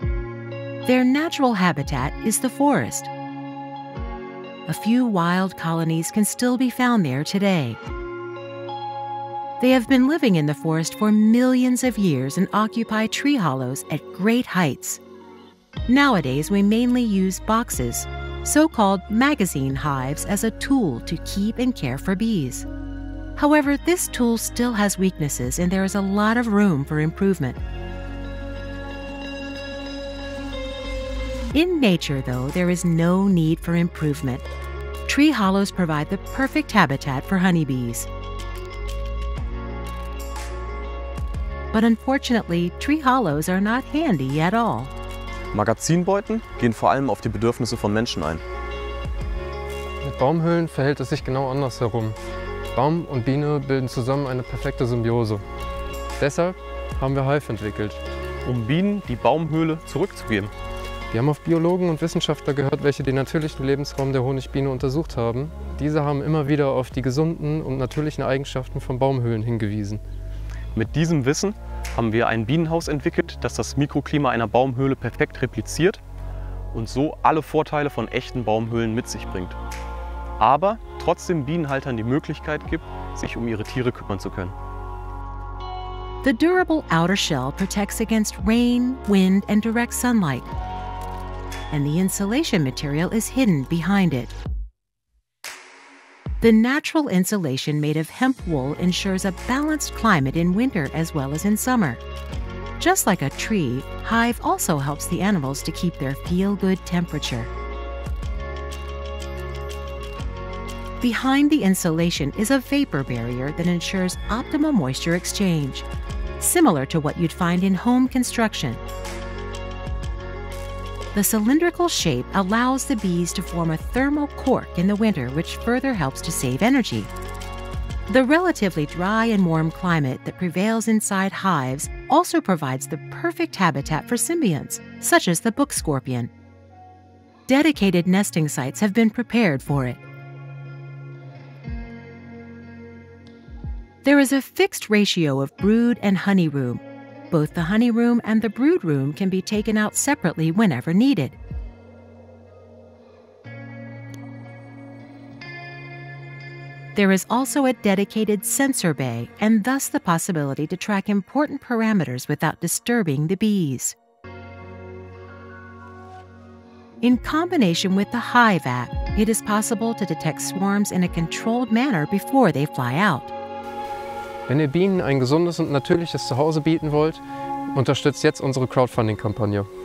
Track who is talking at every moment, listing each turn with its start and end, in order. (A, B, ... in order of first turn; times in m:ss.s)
0:00.8-0:03.1 A
0:04.7-0:07.8 A
0:09.6-0:15.0 A
0:15.9-0:22.7 A
0:23.4-0:27.6 A
0:31.5-0:34.5 A
0:35.1-0:38.1 A
0:41.7-0:44.9 A
0:45.5-0:48.4 B
0:50.0-0:52.2 C
0:52.8-0:55.4 C
0:56.2-0:58.0 C
0:58.4-1:00.5 B
1:01.1-1:10.0 C
1:10.8-1:16.0 B
1:16.7-1:19.6 B
1:20.4-1:24.6 B
1:26.2-1:30.5 A
1:31.7-1:34.3 A
1:36.4-1:42.0 A
1:42.8-1:47.5 A
1:51.0-1:55.9 A
1:56.4-1:58.8 A
2:01.1-2:07.1 A
2:08.1-2:16.3 A
2:17.5-2:20.0 A
2:24.0-2:31.4 A
2:37.0-2:44.0 A
2:47.0-2:53.3 A
2:54.5-2:59.7 C